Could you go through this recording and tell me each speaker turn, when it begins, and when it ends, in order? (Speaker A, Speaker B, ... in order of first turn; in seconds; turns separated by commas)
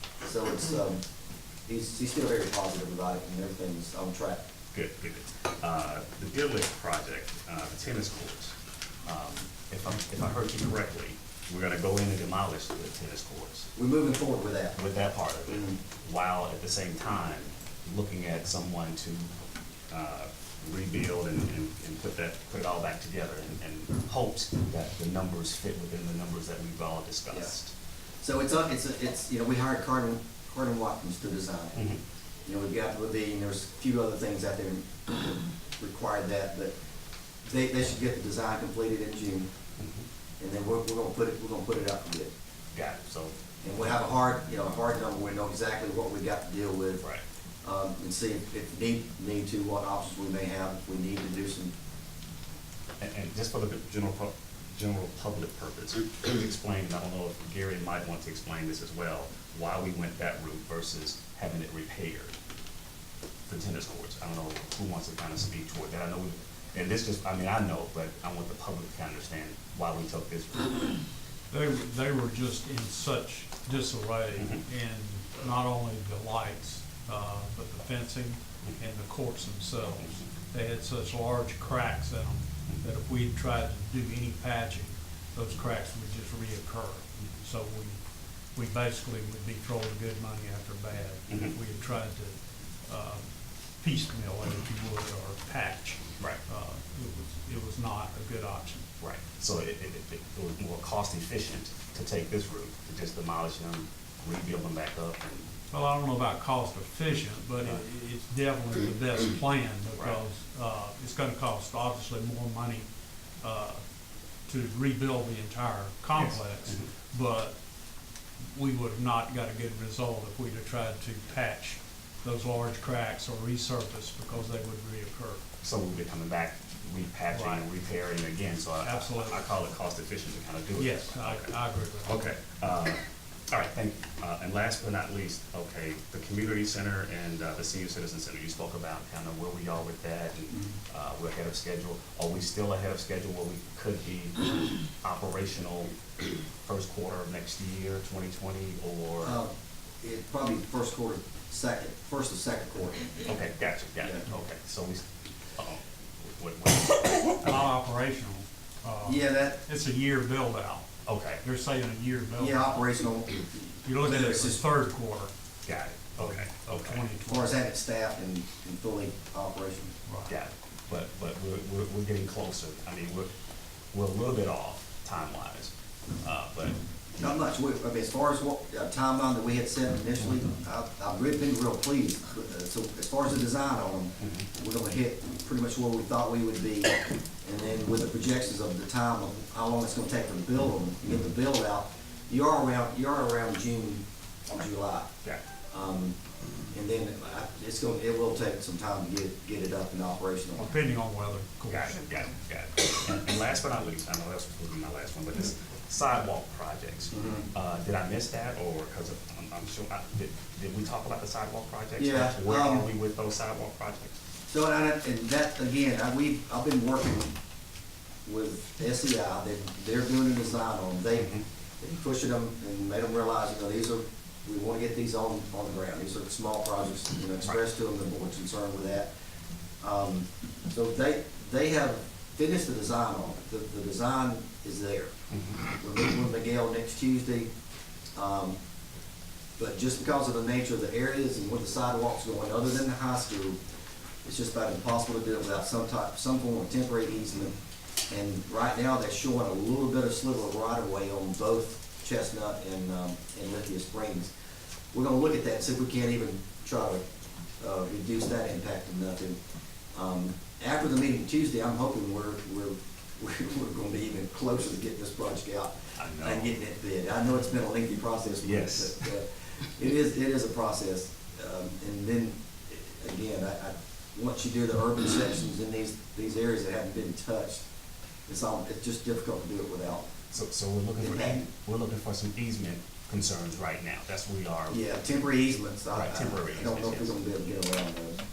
Speaker A: 0.2-1.0, Speaker A: 1.7-4.4, Speaker B: 4.7-8.5, Speaker B: 9.1-13.7, Speaker A: 13.8-14.8, Speaker B: 14.8-19.3, Speaker A: 15.5-15.8, Speaker B: 19.9-27.7, Speaker A: 28.2-31.9, Speaker B: 31.8-32.0, Speaker A: 32.5-36.7, Speaker A: 37.5-39.5, Speaker B: 39.8-40.0, Speaker A: 40.4-42.3, Speaker B: 42.8-43.3, Speaker A: 43.6-47.0, Speaker A: 47.6-51.7, Speaker B: 53.0-62.4, Speaker B: 63.5-70.9, Speaker C: 71.5-88.0, Speaker B: 74.4-74.6, Speaker C: 88.5-93.2, Speaker B: 91.3-91.5, Speaker C: 93.8-98.9, Speaker B: 99.0-105.5, Speaker C: 105.7-112.9, Speaker C: 113.4-113.8, Speaker C: 114.5-117.5, Speaker B: 116.1-116.9, Speaker C: 118.5-125.4, Speaker B: 125.6-145.9, Speaker C: 127.3-127.7, Speaker C: 128.8-129.4, Speaker C: 130.8-132.2, Speaker B: 146.7-149.4, Speaker A: 149.2-149.5, Speaker A: 150.0-153.2, Speaker B: 153.2-155.0, Speaker B: 155.6-157.7, Speaker C: 157.4-160.9, Speaker A: 159.0-159.6, Speaker B: 161.1-161.4, Speaker C: 161.4-162.8, Speaker A: 162.4-164.6, Speaker C: 163.8-165.3, Speaker B: 165.7-167.0, Speaker C: 166.2-167.6, Speaker A: 167.2-169.9, Speaker C: 170.1-170.3, Speaker B: 170.3-173.3, Speaker B: 173.9-177.4, Speaker A: 177.2-195.1, Speaker B: 184.2-184.5, Speaker A: 195.7-196.2, Speaker A: 196.7-200.7, Speaker C: 200.6-201.9, Speaker B: 201.7-214.1, Speaker A: 207.1-207.5, Speaker A: 212.0-212.9, Speaker A: 214.5-217.3, Speaker A: 218.3-229.1, Speaker B: 221.2-221.4, Speaker A: 229.8-235.1, Speaker B: 235.3-235.6, Speaker A: 235.7-237.5, Speaker A: 238.2-238.6, Speaker A: 239.6-243.6, Speaker A: 244.2-247.6, Speaker A: 248.1-254.3, Speaker A: 254.9-257.0, Speaker A: 257.6-259.4, Speaker A: 259.9-277.6, Speaker B: 266.0-266.5, Speaker B: 268.4-269.1, Speaker A: 278.3-280.1, Speaker B: 280.3-284.8, Speaker A: 281.0-281.4, Speaker A: 284.7-288.2, Speaker B: 285.9-287.2